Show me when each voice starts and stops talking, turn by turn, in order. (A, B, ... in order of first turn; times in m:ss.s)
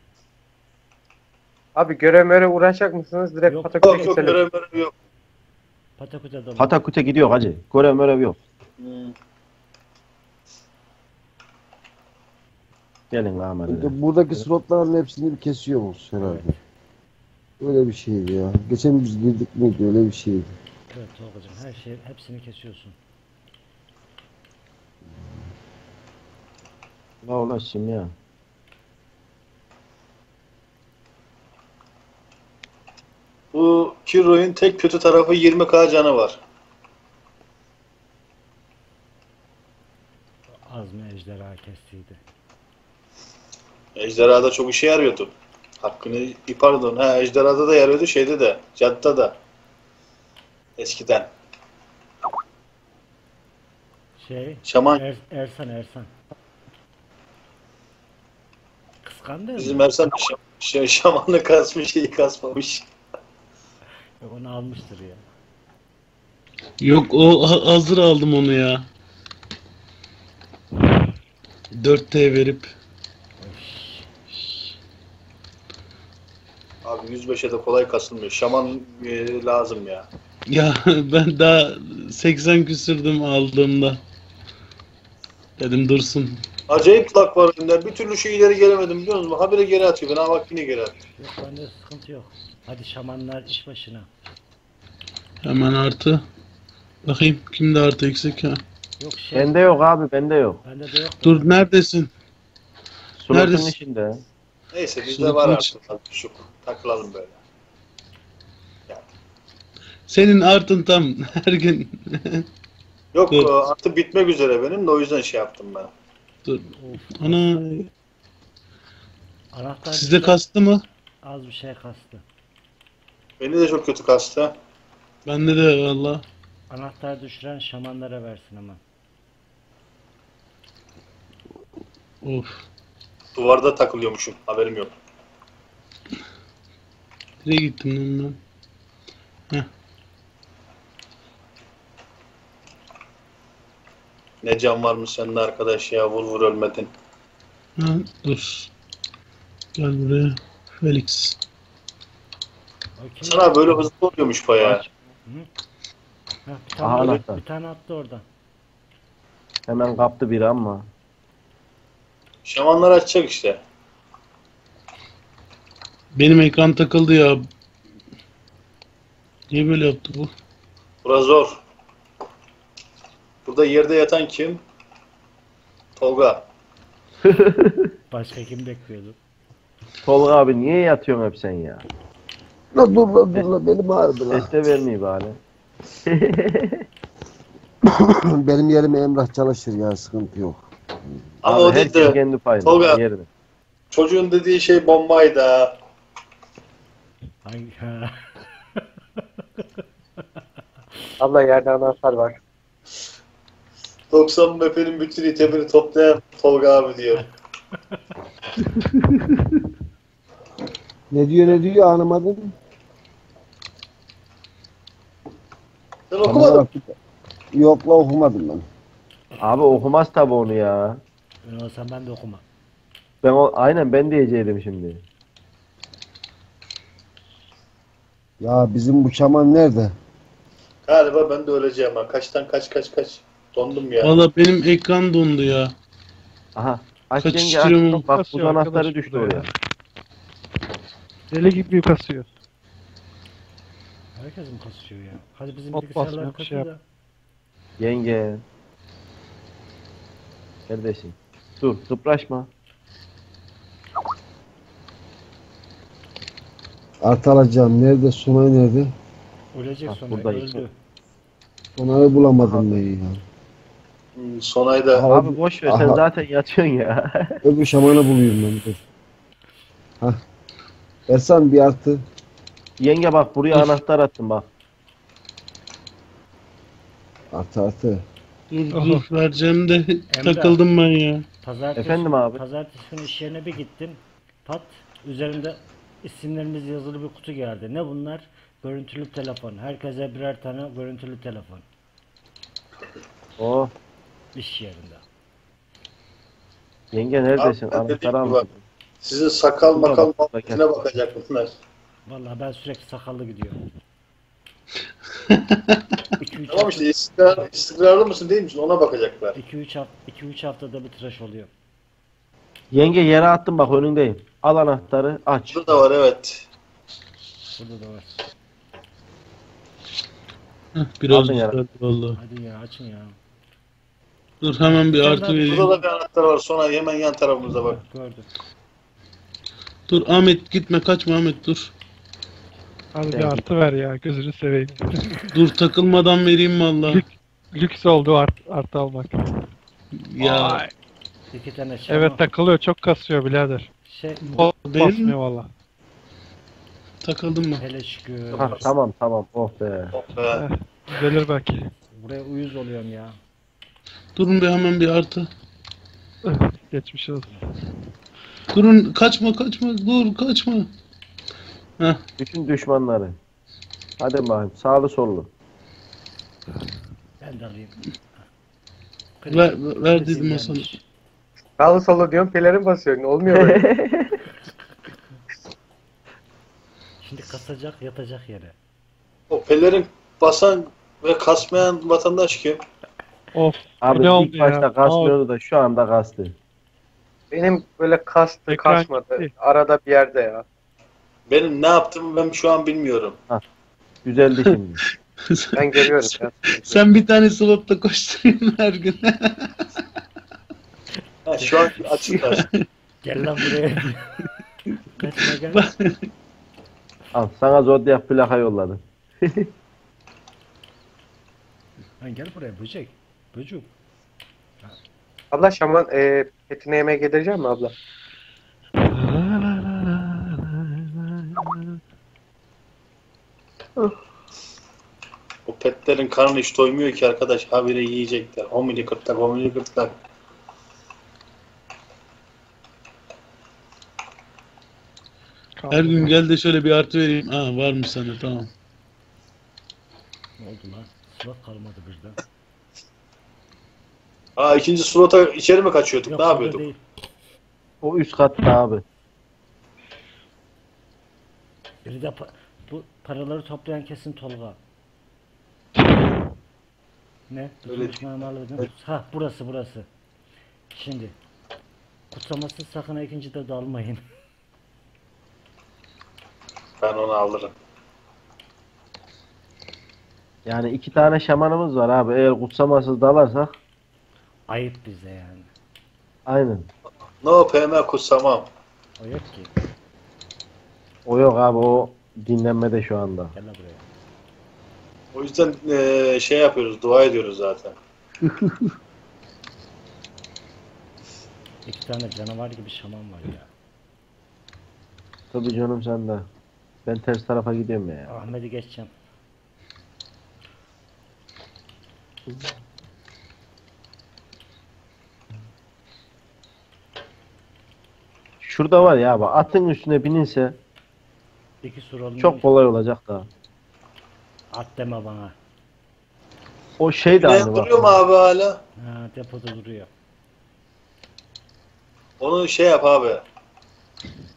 0:01.8-0:04.4 A
0:03.5-0:03.7 B
0:03.8-0:04.9 C
0:06.0-0:06.8 B
0:06.6-0:08.4 D
0:08.8-0:09.1 C
0:13.1-0:14.4 D
0:13.7-0:16.5 E
0:16.2-0:16.6 B
0:17.6-0:20.5 E
0:20.9-0:23.0 B
0:27.2-0:28.1 D
0:33.5-0:36.4 C
0:40.6-0:42.2 B
0:44.0-0:49.4 C
0:50.8-0:51.3 C
0:54.2-0:56.1 B
0:54.6-0:55.0 C
0:59.0-0:59.9 B
0:59.6-1:02.9 C
1:04.2-1:05.2 B
1:06.8-1:08.8 F
1:11.8-1:12.7 F
1:13.4-1:14.1 B
1:16.8-1:20.1 C
1:20.5-1:24.0 F
1:25.6-1:26.4 F
1:26.7-1:30.9 C
1:31.2-1:34.1 B
1:35.4-1:36.2 F
1:37.0-1:38.6 F
1:39.0-1:39.8 B
1:39.3-1:40.6 D
1:40.6-1:41.7 B
1:41.2-1:42.1 F
1:43.2-1:44.2 D
1:43.3-1:43.7 F
1:44.7-1:47.4 C
1:45.1-1:45.7 F
1:50.1-1:52.4 F
1:53.1-1:55.9 C
1:56.4-1:57.9 F
1:56.7-1:57.6 B
1:59.5-2:00.4 B
1:59.9-2:00.8 F
2:01.2-2:02.2 B
2:03.4-2:04.5 C
2:05.2-2:06.2 F
2:06.7-2:08.8 B
2:12.2-2:12.6 F
2:13.3-2:14.9 C
2:17.4-2:18.4 F
2:24.4-2:26.9 C
2:27.8-2:28.7 F
2:29.8-2:31.4 F
2:33.0-2:33.8 B
2:33.2-2:34.8 C
2:34.6-2:35.5 B
2:36.4-2:38.2 B
2:36.8-2:37.4 D
2:39.7-2:40.9 D
2:42.4-2:43.6 C
2:46.2-2:47.4 F
2:49.5-2:50.3 F
2:51.0-2:51.6 C
2:53.4-2:54.6 C
2:56.0-2:56.4 C
2:57.2-2:57.9 D
2:58.1-2:59.2 B
3:00.0-3:01.8 D
3:02.7-3:04.5 E
3:04.3-3:05.4 D
3:06.0-3:06.8 D
3:07.8-3:11.2 E
3:11.4-3:13.0 C
3:11.5-3:13.3 D
3:13.9-3:15.8 C
3:17.4-3:19.8 B
3:21.2-3:22.4 A
3:24.1-3:27.2 C
3:27.2-3:28.0 B
3:31.1-3:32.5 E
3:36.1-3:36.6 C
3:36.2-3:36.9 E
3:37.5-3:38.6 E
3:39.4-3:41.0 D
3:41.4-3:42.4 B
3:43.2-3:45.0 D
3:48.4-3:49.9 E
3:50.9-3:54.1 C
3:54.0-3:55.7 F
3:56.6-3:59.5 D
3:57.2-3:58.0 F
3:57.9-3:59.5 G
4:01.3-4:02.3 G
4:04.2-4:06.8 B
4:05.7-4:06.7 G
4:07.8-4:08.4 D
4:10.7-4:12.5 D
4:17.0-4:18.9 E
4:19.5-4:20.7 B
4:19.9-4:20.6 D
4:21.8-4:23.2 E
4:22.4-4:22.7 D
4:24.2-4:25.1 C
4:24.9-4:26.0 E
4:25.1-4:27.4 D
4:27.4-4:28.8 E
4:31.1-4:32.0 E
4:32.8-4:34.5 D
4:37.3-4:38.0 E
4:38.5-4:41.2 F
4:38.7-4:39.1 G
4:40.1-4:40.6 B
4:41.4-4:51.6 B
4:41.8-4:42.4 D
4:53.4-4:53.7 D
4:54.3-4:55.0 B
4:56.9-4:58.6 D
4:57.4-4:58.4 C
4:59.0-5:01.5 C
4:59.7-5:00.7 D
5:02.1-5:03.6 B
5:05.3-5:06.0 F
5:06.2-5:06.9 B
5:06.5-5:09.4 C
5:09.3-5:11.5 B
5:12.7-5:15.8 D
5:15.5-5:16.4 C
5:17.6-5:18.2 B
5:20.8-5:22.2 F
5:21.1-5:21.6 D
5:22.1-5:23.2 B
5:24.4-5:25.7 F
5:24.7-5:25.8 B
5:25.4-5:27.8 C
5:27.7-5:28.3 B
5:29.9-5:31.7 F
5:32.9-5:35.1 G
5:33.1-5:33.5 D
5:35.3-5:37.0 F
5:36.8-5:39.2 G
5:40.1-5:40.6 F
5:40.2-5:40.7 G
5:41.3-5:42.2 B
5:41.9-5:43.7 G
5:43.8-5:44.5 B
5:44.3-5:45.1 F
5:44.7-5:45.5 G
5:47.0-5:47.6 F
5:47.6-5:48.7 B
5:48.3-5:49.9 D
5:49.9-5:50.4 C
5:50.3-5:51.6 G
5:52.0-5:53.2 B
5:54.2-5:55.3 F
5:56.3-5:57.4 G
5:58.5-6:00.7 F
6:02.2-6:03.2 D
6:04.0-6:05.3 D
6:07.2-6:07.8 B
6:09.2-6:10.8 B
6:09.3-6:10.7 F
6:11.6-6:13.6 A
6:13.3-6:14.2 D
6:17.0-6:18.5 B
6:19.3-6:22.6 C
6:23.3-6:25.2 G
6:23.8-6:26.3 D
6:27.3-6:30.4 A
6:28.5-6:29.3 G
6:31.3-6:33.2 C
6:34.0-6:34.8 D
6:35.3-6:39.5 F
6:35.6-6:36.8 A
6:41.2-6:42.4 C
6:41.4-6:41.9 B
6:42.2-6:42.6 F
6:43.0-6:44.1 B
6:45.0-6:45.7 B
6:45.5-6:46.1 F
6:47.1-6:49.5 D
6:52.0-6:53.7 B
6:55.3-6:57.7 A
6:58.8-7:01.8 G
7:05.5-7:09.9 C
7:15.6-7:16.1 G
7:15.7-7:18.5 F
7:20.4-7:22.2 B
7:24.4-7:26.6 C
7:26.1-7:26.8 B
7:27.8-7:28.8 D
7:31.8-7:34.6 B
7:37.3-7:39.9 B
7:37.7-7:38.0 C
7:40.7-7:41.1 B
7:42.1-7:44.0 B
7:46.8-7:47.5 C
7:50.4-7:53.5 D
7:54.5-7:55.5 B
7:56.3-7:56.7 D
7:57.2-7:58.5 C
7:59.0-7:59.5 B
8:01.0-8:03.3 D
8:03.3-8:03.8 B
8:05.1-8:07.8 C
8:11.6-8:13.5 B
8:15.3-8:16.2 D
8:16.8-8:18.2 D
8:18.1-8:18.9 B
8:28.4-8:30.6 D
8:31.6-8:32.5 B
8:32.2-8:33.3 D
8:34.5-8:35.3 B
8:36.8-8:38.0 D
8:37.1-8:38.6 C
8:38.8-8:39.9 B
8:42.2-8:43.2 C